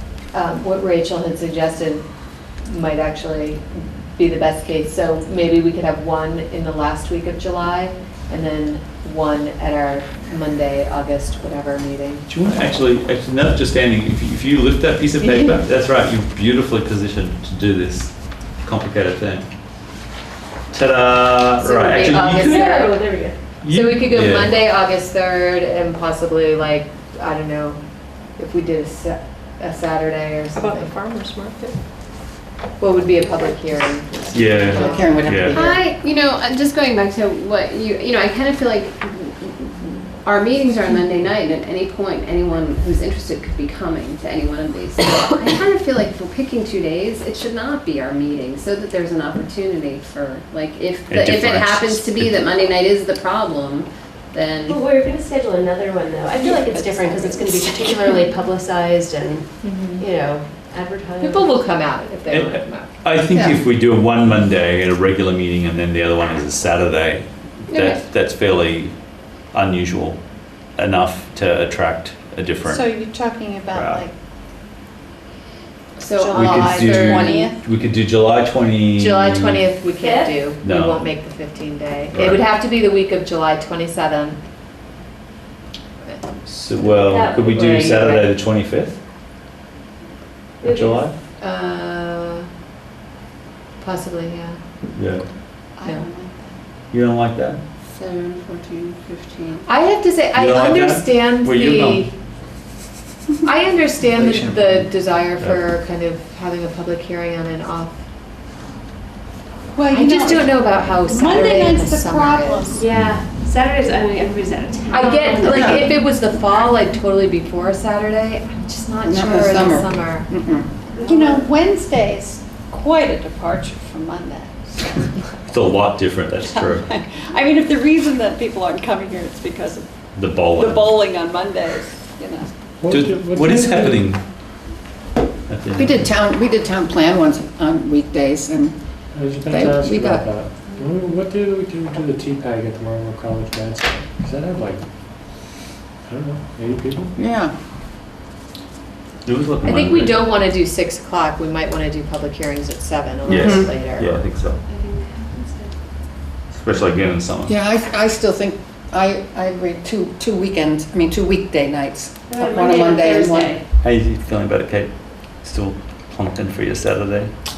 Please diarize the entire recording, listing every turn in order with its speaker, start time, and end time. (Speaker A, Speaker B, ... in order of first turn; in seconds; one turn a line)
Speaker A: 0.3-2.0
Speaker A: 2.6-12.3
Speaker B: 12.3-19.5
Speaker A: 15.2-15.6
Speaker B: 20.7-22.6
Speaker A: 21.6-22.9
Speaker C: 21.7-23.4
Speaker B: 23.6-24.6
Speaker A: 23.7-27.8
Speaker A: 28.4-30.9
Speaker C: 30.6-31.7
Speaker A: 32.8-35.2
Speaker B: 34.3-35.6
Speaker D: 34.7-35.8
Speaker E: 35.5-54.8
Speaker B: 51.1-52.4
Speaker C: 54.7-61.6
Speaker F: 56.4-58.1
Speaker A: 59.6-60.0
Speaker A: 61.2-62.9
Speaker B: 62.3-68.9
Speaker D: 63.3-63.6
Speaker E: 67.7-68.0
Speaker B: 69.5-70.2
Speaker B: 70.8-73.0
Speaker F: 72.7-74.1
Speaker B: 73.7-74.0
Speaker E: 76.0-77.5
Speaker F: 76.1-77.6
Speaker B: 76.3-79.7
Speaker A: 79.0-84.4
Speaker C: 80.0-80.3
Speaker B: 80.6-81.1
Speaker B: 82.1-82.5
Speaker B: 86.5-89.0
Speaker C: 86.8-87.9
Speaker A: 86.8-88.3
Speaker C: 90.6-91.0
Speaker B: 90.6-91.1
Speaker A: 91.4-92.5
Speaker A: 93.8-94.6
Speaker B: 94.9-95.2
Speaker F: 95.8-96.5
Speaker B: 96.9-97.6
Speaker E: 97.9-99.6
Speaker A: 99.6-102.1
Speaker B: 100.3-102.1
Speaker A: 103.4-107.9
Speaker B: 104.3-104.7
Speaker D: 109.8-110.2
Speaker F: 109.8-110.4
Speaker A: 109.9-112.7
Speaker F: 111.0-112.9
Speaker C: 112.7-116.0
Speaker A: 114.9-120.3
Speaker D: 115.4-115.9
Speaker D: 119.0-120.7
Speaker C: 121.0-121.4
Speaker F: 121.0-124.9
Speaker B: 125.5-126.8
Speaker F: 126.4-129.9
Speaker B: 130.1-131.0
Speaker F: 130.4-132.5
Speaker G: 132.8-134.0
Speaker B: 132.9-134.2
Speaker B: 135.5-136.0
Speaker D: 135.8-140.3
Speaker G: 139.1-144.9
Speaker G: 146.1-147.1
Speaker D: 147.2-147.5
Speaker B: 149.2-150.2
Speaker A: 149.6-154.2
Speaker B: 153.3-154.6
Speaker E: 153.3-153.7
Speaker C: 154.7-155.7
Speaker B: 156.5-157.6
Speaker D: 157.5-163.5
Speaker C: 162.3-163.6
Speaker B: 163.8-164.9
Speaker B: 165.4-167.3